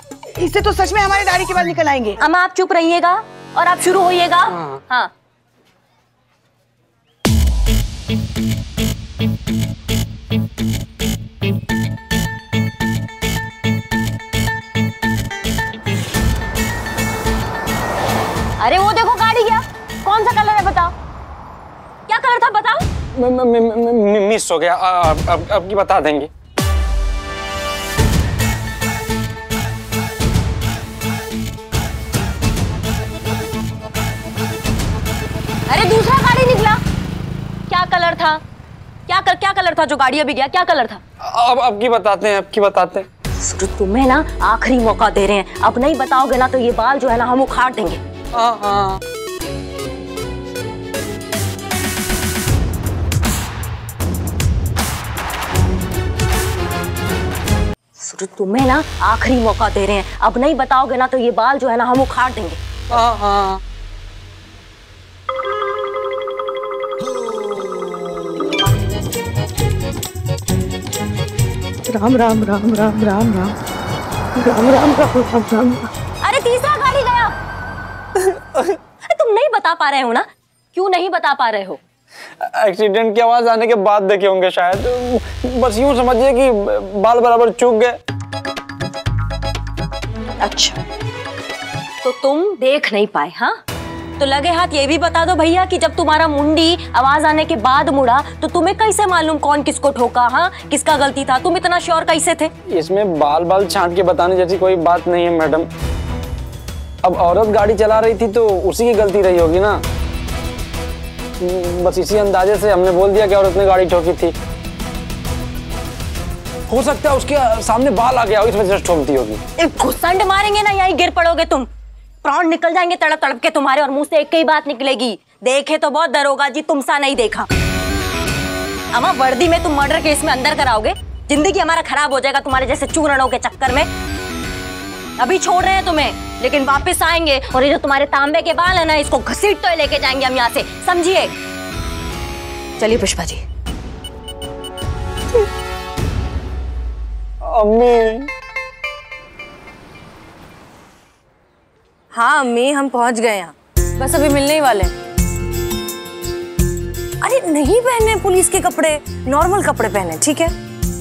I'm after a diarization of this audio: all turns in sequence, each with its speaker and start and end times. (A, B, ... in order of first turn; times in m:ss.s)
0:00.3-0:02.2 A
0:02.2-0:05.1 B
0:18.6-0:20.9 B
0:22.1-0:22.8 B
0:23.1-0:26.3 C
0:35.7-0:36.8 B
0:37.7-0:38.4 B
0:39.1-0:41.0 B
0:41.2-0:43.0 C
0:43.4-0:48.0 B
0:48.4-0:48.8 C
0:58.0-1:02.6 B
1:11.9-1:13.5 A
1:14.4-1:15.9 A
1:16.2-1:17.3 B
1:19.0-1:21.8 B
1:22.4-1:28.0 C
1:32.0-1:33.6 B
1:34.2-1:42.5 B
1:42.7-1:45.7 C
1:47.0-1:49.8 C
1:51.4-1:54.3 C
1:56.7-1:59.4 C
1:59.6-2:01.7 B
2:02.2-2:07.5 B
2:08.9-2:13.9 B
2:15.2-2:21.3 B
2:22.8-2:23.4 D
2:27.4-2:28.3 C
2:32.1-2:34.9 D
2:37.2-2:40.5 D